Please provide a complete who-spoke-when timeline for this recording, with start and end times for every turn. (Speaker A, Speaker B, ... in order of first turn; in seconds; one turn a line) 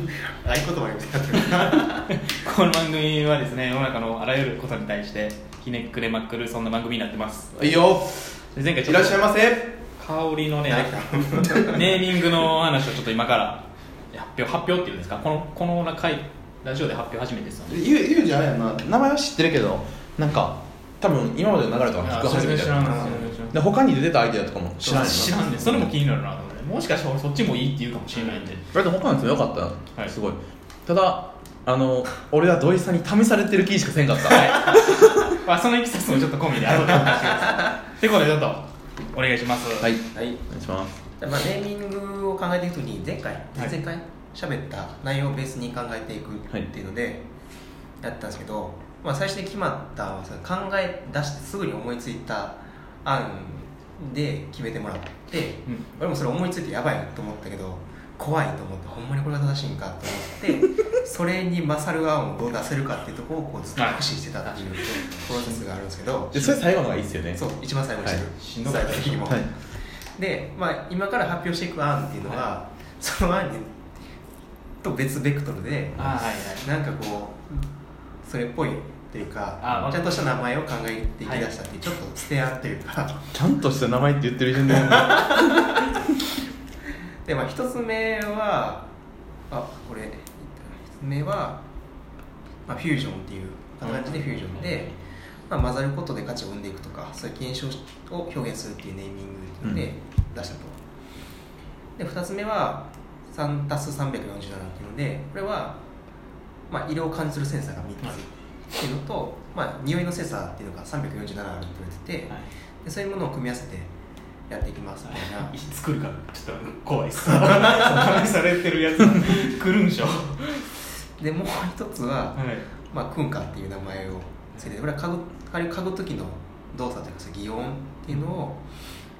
Speaker A: 0.2-2.1
Speaker B: 1.5-7.7
Speaker C: 7.5-8.3
Speaker B: 8.5-9.3
Speaker C: 8.8-9.8
Speaker B: 10.0-17.9
Speaker A: 10.6-11.8
Speaker C: 17.7-25.9
Speaker B: 22.0-23.6
Speaker A: 22.9-23.1
Speaker B: 24.8-28.6
Speaker A: 24.9-25.2
Speaker C: 28.7-34.6
Speaker B: 34.3-39.9
Speaker C: 39.8-41.0
Speaker A: 40.1-40.4
Speaker A: 41.2-47.3
Speaker A: 48.0-66.6
Speaker B: 63.8-65.6
Speaker C: 66.3-67.4
Speaker A: 67.3-69.5
Speaker B: 68.3-69.3
Speaker A: 70.2-73.8
Speaker B: 72.2-72.5
Speaker A: 74.8-77.7
Speaker B: 76.0-76.7
Speaker A: 78.2-83.2
Speaker B: 79.6-80.2
Speaker C: 83.3-86.0
Speaker A: 84.7-85.5
Speaker A: 87.2-88.9
Speaker A: 89.5-91.6
Speaker A: 92.7-94.9
Speaker B: 93.8-95.0
Speaker A: 95.5-100.8
Speaker C: 99.6-99.9
Speaker A: 102.0-105.8
Speaker A: 106.7-113.9
Speaker A: 114.5-115.5
Speaker B: 115.1-120.8
Speaker A: 121.2-128.6
Speaker B: 122.3-122.7